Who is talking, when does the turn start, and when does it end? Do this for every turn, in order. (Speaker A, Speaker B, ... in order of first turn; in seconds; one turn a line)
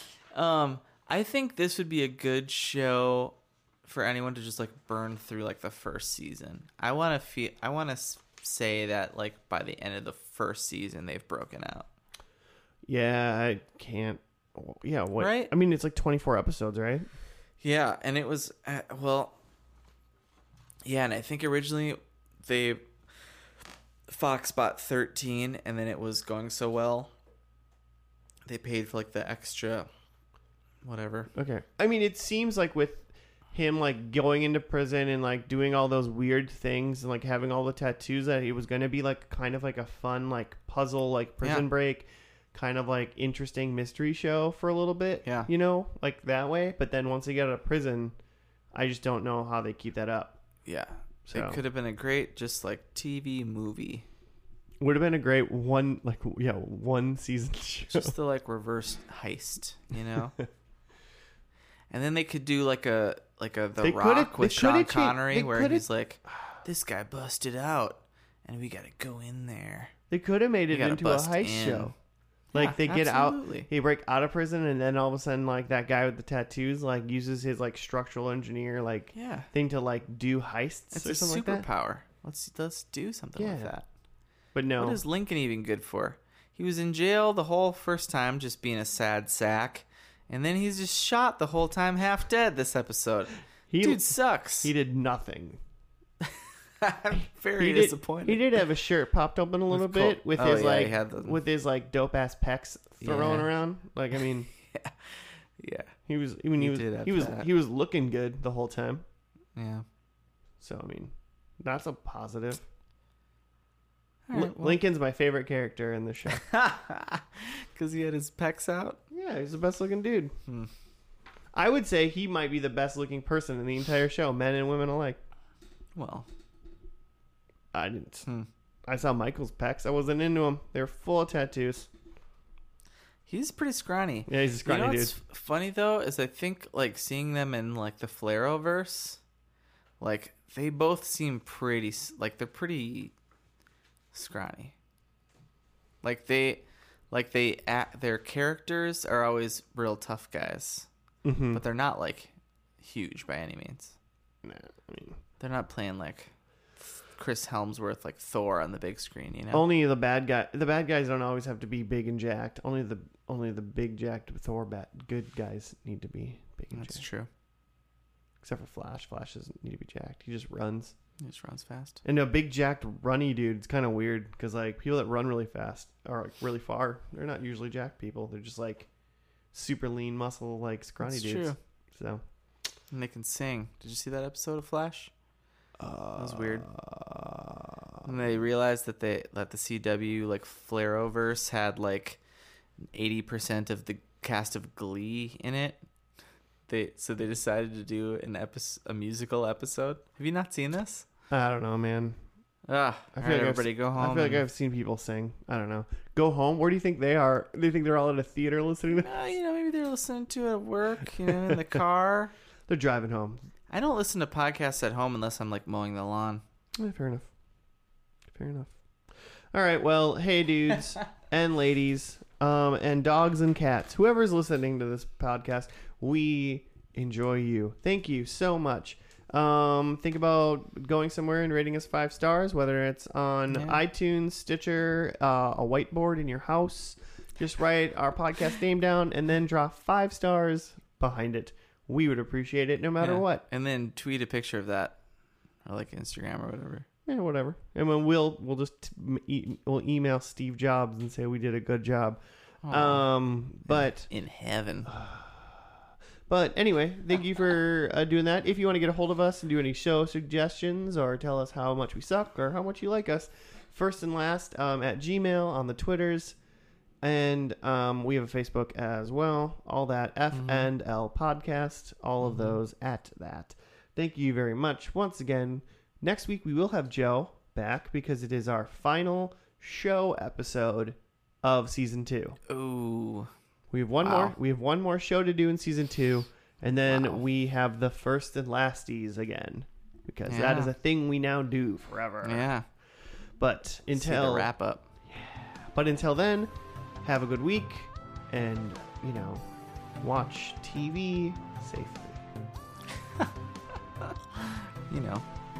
Speaker A: 0.3-11.9
Speaker B: 12.9-17.1
Speaker A: 15.2-15.5
Speaker A: 17.6-19.4
Speaker A: 20.9-22.9
Speaker A: 24.1-27.1
Speaker A: 28.5-29.9
Speaker A: 30.8-31.3
Speaker B: 31.4-48.1
Speaker B: 48.7-50.4
Speaker A: 50.7-54.1
Speaker B: 51.3-51.6
Speaker B: 54.8-58.1
Speaker A: 57.9-60.4
Speaker A: 61.9-69.9
Speaker B: 63.8-65.9
Speaker B: 70.1-71.9
Speaker A: 70.7-71.9
Speaker B: 72.5-81.7
Speaker A: 72.5-73.7
Speaker A: 79.1-79.5
Speaker A: 80.9-83.9
Speaker B: 83.4-83.7
Speaker B: 84.5-85.0
Speaker A: 84.8-94.7
Speaker B: 93.7-94.0
Speaker B: 94.6-95.6
Speaker A: 96.2-98.5
Speaker B: 97.6-104.5
Speaker A: 99.7-101.4
Speaker A: 103.0-103.5
Speaker A: 104.6-105.9
Speaker B: 106.1-109.0
Speaker A: 106.6-107.5
Speaker A: 109.6-109.8
Speaker B: 110.6-112.6
Speaker A: 114.3-114.8
Speaker B: 114.3-116.4
Speaker A: 116.3-119.0
Speaker B: 119.1-120.3
Speaker B: 121.5-125.2
Speaker A: 126.0-126.3
Speaker B: 127.7-128.3
Speaker B: 128.9-131.9
Speaker A: 133.3-139.2
Speaker B: 134.3-135.1
Speaker A: 140.0-143.1
Speaker A: 144.1-144.8
Speaker A: 146.0-150.9
Speaker B: 151.2-151.6
Speaker A: 151.5-154.0
Speaker B: 154.4-155.2
Speaker A: 155.4-159.7
Speaker B: 159.5-167.0
Speaker A: 166.7-167.3
Speaker B: 168.4-170.9
Speaker A: 171.2-172.0
Speaker B: 172.1-178.9
Speaker B: 179.5-182.2
Speaker A: 181.0-181.6
Speaker A: 182.9-185.1
Speaker B: 185.8-188.1
Speaker A: 186.2-186.7
Speaker A: 188.1-192.2
Speaker A: 192.9-195.8
Speaker A: 196.7-201.1
Speaker B: 201.3-202.2
Speaker A: 202.7-204.4
Speaker B: 203.2-209.1
Speaker A: 208.9-212.3
Speaker B: 212.7-213.4
Speaker A: 213.7-216.4
Speaker B: 216.8-217.3
Speaker B: 218.3-218.8
Speaker B: 219.5-243.4
Speaker A: 233.5-233.8
Speaker A: 243.0-245.0
Speaker A: 245.7-246.9
Speaker B: 247.1-252.2
Speaker A: 252.6-253.1
Speaker B: 252.7-254.1
Speaker A: 253.7-254.9
Speaker B: 254.9-255.7
Speaker B: 256.3-266.4
Speaker B: 267.0-282.4
Speaker A: 270.3-270.7
Speaker A: 272.2-272.6
Speaker A: 282.5-283.3
Speaker B: 283.7-292.5
Speaker A: 284.0-284.4
Speaker A: 286.9-287.2
Speaker A: 290.3-290.7
Speaker A: 292.2-292.6
Speaker B: 293.4-294.5
Speaker A: 293.9-294.9
Speaker B: 295.1-296.5
Speaker B: 297.0-299.4
Speaker B: 300.0-302.2
Speaker A: 303.0-303.3
Speaker A: 304.0-305.3